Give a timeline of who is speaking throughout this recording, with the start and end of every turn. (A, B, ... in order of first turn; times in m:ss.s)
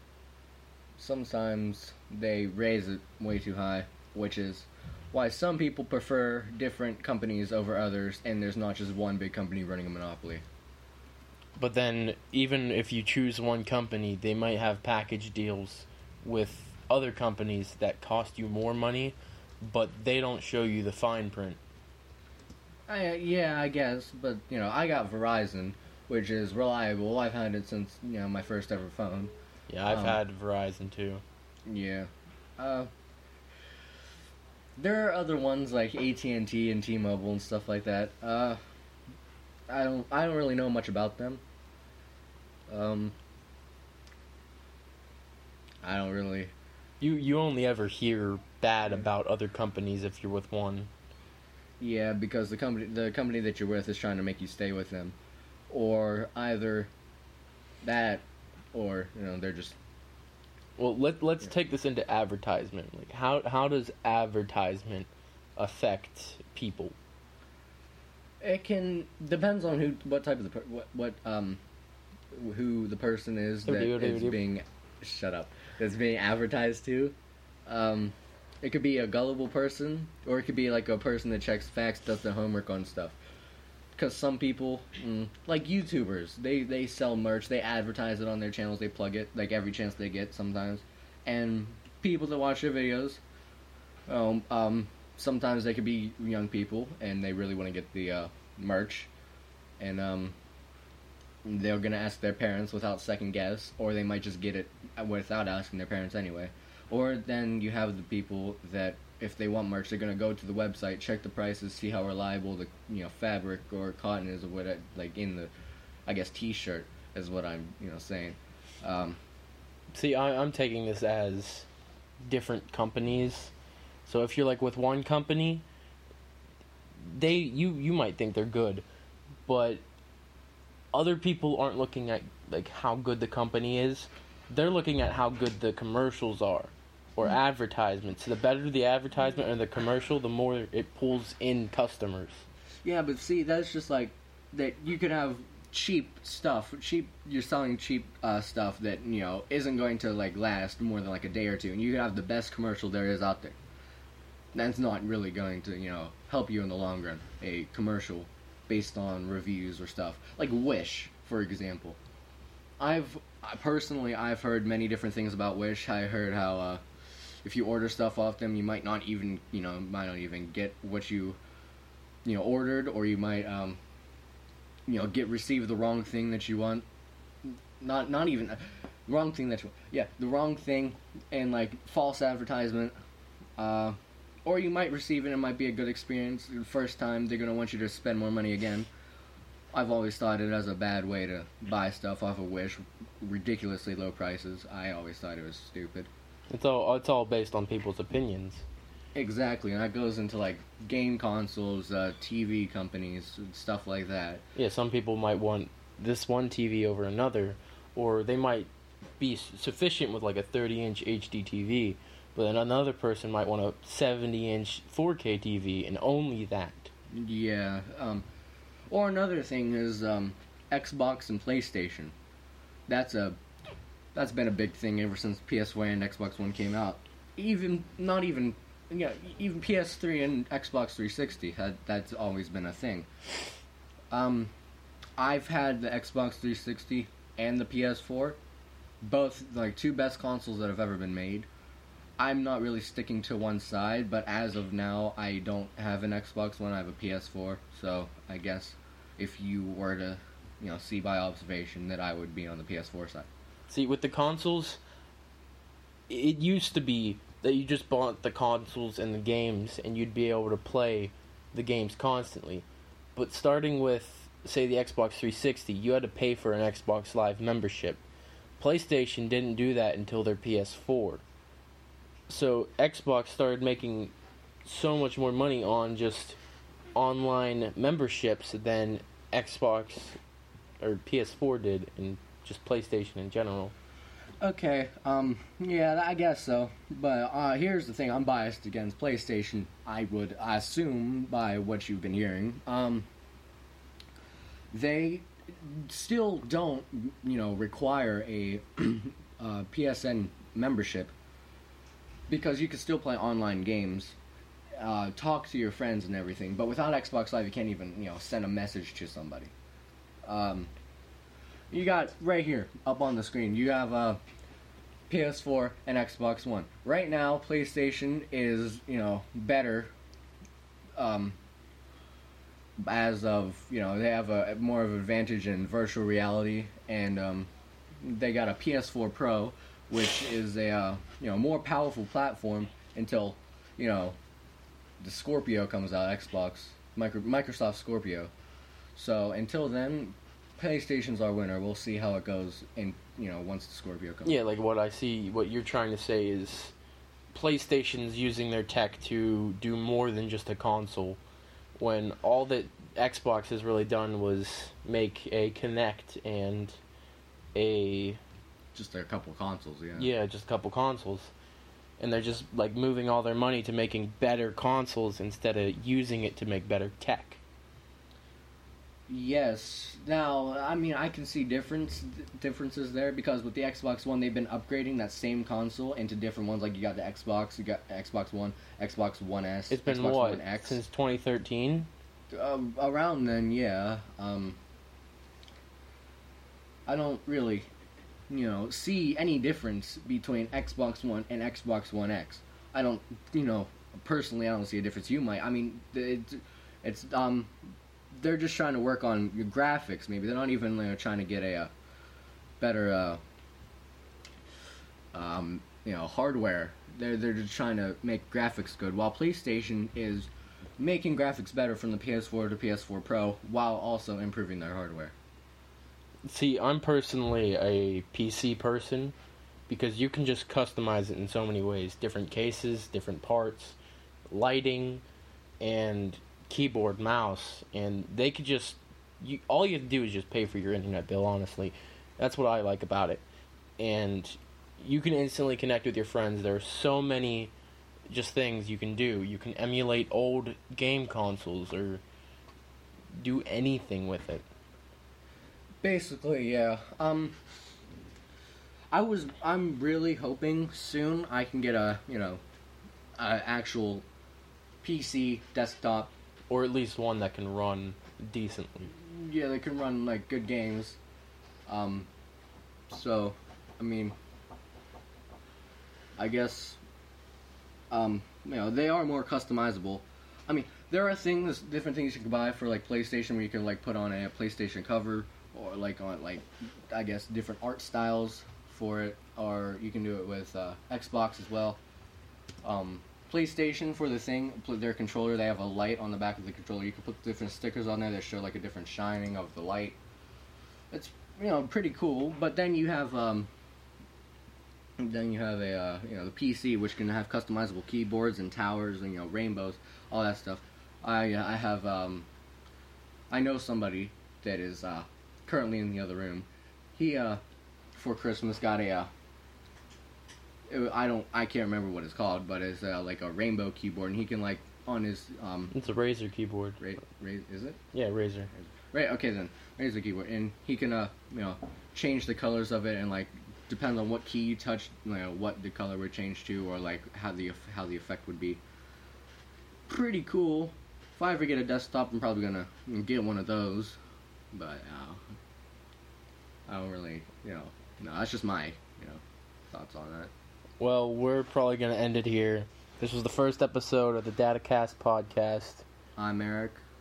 0:01.0-0:10.4 A
0:11.6-0:21.6 B
0:22.9-0:29.3 A
0:29.7-0:31.2 B
0:29.9-0:30.2 A
0:31.7-0:32.9 A
0:34.8-0:38.6 A
0:39.7-0:41.4 A
0:42.7-0:43.1 A
0:45.8-0:46.5 A
0:47.0-0:50.9 B
0:51.8-0:55.2 A
0:55.7-0:56.9 A
0:57.8-0:59.8 A
1:00.8-1:06.9 B
1:08.4-1:11.6 A
1:12.3-1:17.2 A
1:13.6-1:14.4 B
1:17.7-1:23.2 A
1:23.9-1:33.2 A
1:34.1-1:39.1 A
1:39.8-1:40.3 A
1:41.4-1:55.5 A
1:56.1-1:59.2 A
1:59.9-2:01.7 B
2:02.2-2:03.5 B
2:04.0-2:05.6 B
2:07.0-2:08.8 B
2:09.4-2:09.8 B
2:10.9-2:22.4 B
2:22.8-2:33.6 A
2:34.5-2:42.0 A
2:42.8-2:46.8 A
2:47.4-2:51.4 A
2:52.2-2:53.8 A
2:54.9-2:56.8 A
2:57.4-3:02.9 A
3:03.6-3:08.9 A
3:09.7-3:16.1 A
3:16.5-3:18.6 B
3:19.1-3:24.4 A
3:24.6-3:28.7 B
3:29.2-3:36.9 B
3:37.1-3:38.2 A
3:38.9-3:42.1 A
3:42.9-3:43.4 A
3:44.1-3:53.1 A
3:54.1-3:54.5 A
3:55.2-3:58.4 A
3:59.0-4:01.5 A
4:02.2-4:13.3 A
4:13.7-4:14.8 B
4:16.1-4:28.0 B
4:28.6-4:31.2 B
4:32.3-4:34.1 B
4:34.6-4:36.4 B
4:36.9-4:40.2 B
4:40.8-4:43.7 B
4:44.4-4:53.0 A
4:54.7-5:01.1 A
5:02.3-5:04.2 A
5:04.8-5:09.5 A
5:10.2-5:10.7 A
5:11.7-5:14.2 A
5:15.1-5:19.9 A
5:21.0-5:21.4 A
5:22.8-5:34.2 A
5:35.0-5:38.3 A
5:39.0-5:44.3 A
5:44.2-5:46.7 B
5:47.3-5:51.2 B
5:51.8-5:56.8 B
5:57.5-5:58.2 B
5:58.7-6:00.1 A
6:00.0-6:01.3 B
6:02.0-6:07.4 B
6:09.1-6:20.8 A
6:19.7-6:21.9 B
6:22.3-6:24.6 A
6:26.9-6:27.7 A
6:28.3-6:37.5 A
6:38.1-6:41.7 A
6:42.6-6:43.2 A
6:45.1-6:55.1 A
6:56.2-6:59.1 B
6:59.7-7:03.8 B
7:04.3-7:05.0 B
7:05.6-7:13.2 B
7:13.8-7:17.5 B
7:18.1-7:22.0 B
7:23.2-7:24.4 B
7:25.8-7:27.4 A
7:28.9-7:32.4 A
7:33.2-7:34.0 A
7:34.8-7:36.1 A
7:36.5-7:38.9 B
7:38.9-7:41.0 A
7:41.7-7:42.1 A
7:42.9-7:44.1 A
7:46.2-7:46.8 A
7:47.9-8:01.8 A
8:02.6-8:10.0 A
8:10.9-8:13.5 A
8:15.0-8:22.3 A
8:23.3-8:27.4 A
8:27.9-8:29.1 A
8:30.7-8:35.7 A
8:35.7-8:36.8 B
8:36.8-8:37.8 A
8:37.9-8:38.5 B
8:38.7-8:48.6 A
8:49.9-8:54.0 A
8:54.5-8:55.2 A
8:56.7-9:00.3 A
9:00.8-9:05.8 B
9:06.2-9:06.8 A